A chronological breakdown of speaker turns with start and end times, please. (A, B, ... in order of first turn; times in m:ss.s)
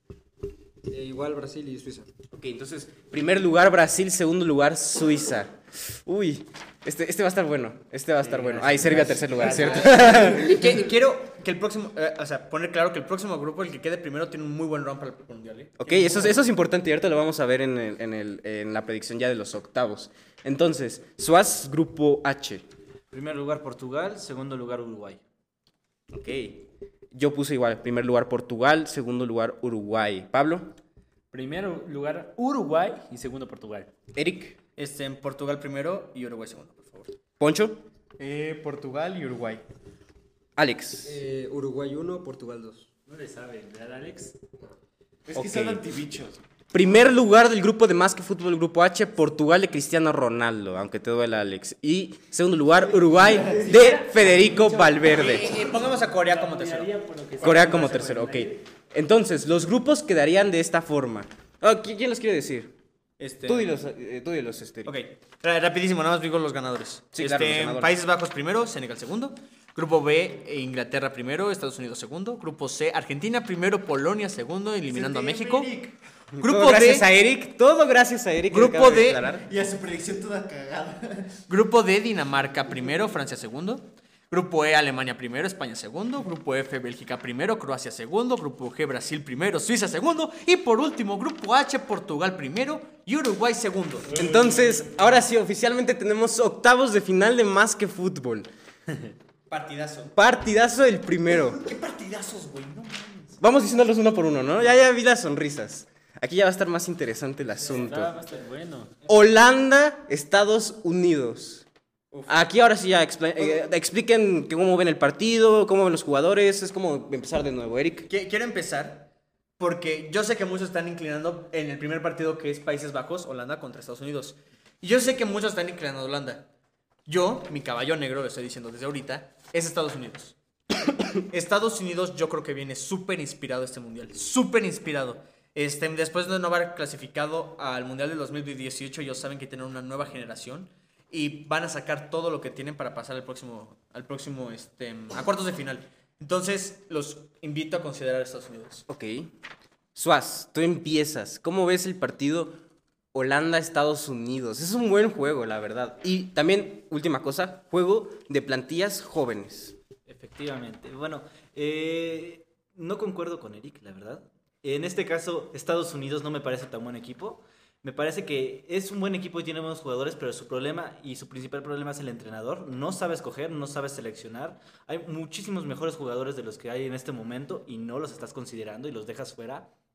0:00.9-0:02.1 A
0:02.3-0:10.7 B
0:08.2-0:10.3 C
0:09.6-0:15.7 D
0:15.8-0:22.6 B
0:15.9-0:16.4 C
0:23.1-0:25.2 E
0:26.1-0:30.8 B
0:31.3-0:33.9 C
0:34.1-0:34.6 B
0:34.8-0:37.1 D
0:37.4-0:37.8 B
0:38.2-0:39.6 F
0:40.6-0:41.2 B
0:41.0-0:42.9 A
0:43.1-0:44.4 C
0:45.2-0:46.4 F
0:45.3-0:45.8 B
0:46.7-0:55.6 B
0:53.6-0:58.6 C
0:55.0-0:56.9 D
0:57.4-1:02.7 B
0:57.5-0:57.8 D
1:03.2-1:03.7 D
1:03.5-1:04.9 B
1:04.8-1:15.7 D
1:07.2-1:07.9 B
1:14.8-1:16.0 F
1:16.4-1:19.4 B
1:16.4-1:17.1 D
1:18.5-1:19.3 D
1:19.4-1:21.3 F
1:21.5-1:34.2 D
1:34.1-1:38.5 B
1:34.1-1:35.0 C
1:39.5-1:40.1 D
1:40.1-1:41.6 B
1:41.3-1:43.4 D
1:43.4-1:48.1 B
1:47.7-1:48.9 C
1:49.0-1:51.6 B
1:52.2-1:58.1 B
1:58.1-2:06.5 D
2:07.0-2:10.3 D
2:11.3-2:28.8 D
2:28.9-2:29.3 B
2:29.9-2:32.6 B
2:33.1-2:39.8 B
2:40.1-2:59.7 E